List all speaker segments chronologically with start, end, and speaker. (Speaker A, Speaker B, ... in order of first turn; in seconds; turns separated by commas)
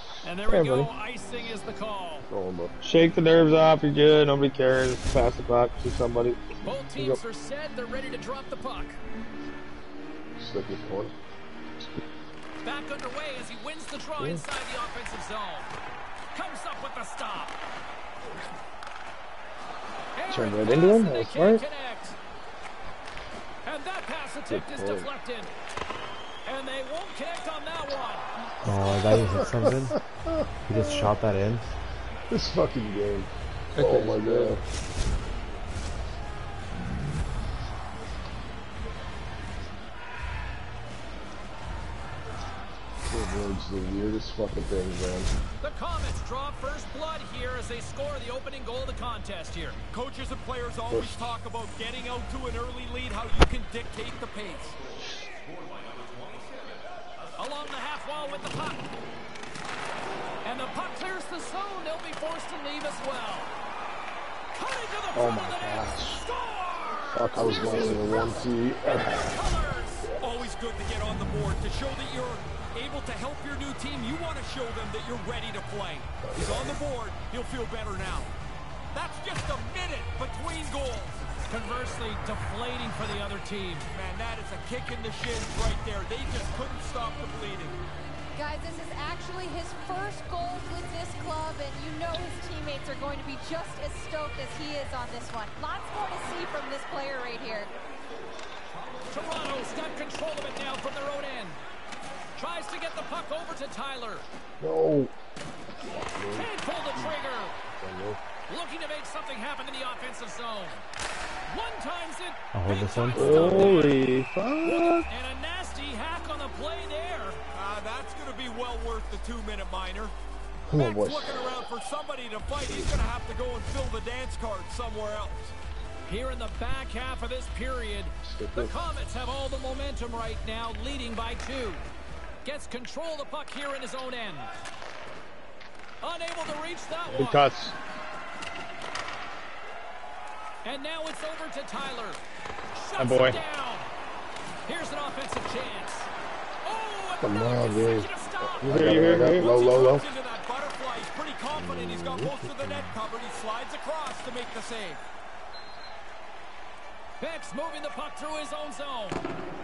Speaker A: 0.2-2.3, Speaker B: 0.5-0.9, Speaker C: 2.3-2.8, Speaker B: 2.8-6.4, Speaker A: 6.6-9.0, Speaker C: 10.4-11.1, Speaker A: 12.6-15.7, Speaker A: 16.3-17.6, Speaker A: 20.1-22.2, Speaker B: 20.3-21.6, Speaker A: 23.6-25.5, Speaker C: 24.5-25.1, Speaker A: 26.4-28.3, Speaker D: 28.6-30.0, Speaker C: 28.6-31.1, Speaker D: 30.6-31.6, Speaker C: 32.3-34.6, Speaker B: 33.7-34.6, Speaker C: 43.0-45.3, Speaker A: 45.6-49.8, Speaker E: 49.9-54.8, Speaker C: 50.9-51.2, Speaker A: 57.4-58.9, Speaker A: 60.4-63.5, Speaker A: 64.5-70.1, Speaker B: 65.1-66.2, Speaker C: 67.1-69.4, Speaker B: 67.4-68.0, Speaker E: 70.2-78.3, Speaker C: 76.2-76.8, Speaker E: 78.9-81.3, Speaker A: 81.5-83.9, Speaker E: 83.9-87.8, Speaker F: 88.3-97.7, Speaker A: 99.1-101.6, Speaker A: 102.3-104.3, Speaker C: 104.6-105.1, Speaker C: 105.8-108.2, Speaker A: 106.3-107.6, Speaker A: 108.5-110.8, Speaker A: 111.5-117.4, Speaker D: 112.5-113.8, Speaker B: 113.1-115.0, Speaker E: 117.5-120.1, Speaker C: 120.7-121.5, Speaker E: 120.7-125.5, Speaker A: 126.1-131.9, Speaker C: 128.2-128.7, Speaker A: 132.4-134.5, Speaker A: 136.0-137.5, Speaker B: 137.1-137.7, Speaker A: 140.6-142.2, Speaker A: 142.7-143.9, Speaker B: 143.0-143.4, Speaker A: 144.7-146.1, Speaker A: 146.6-148.7, Speaker C: 147.2-150.1, Speaker B: 148.6-149.5, Speaker E: 149.1-155.0, Speaker C: 151.5-152.9, Speaker A: 157.2-159.2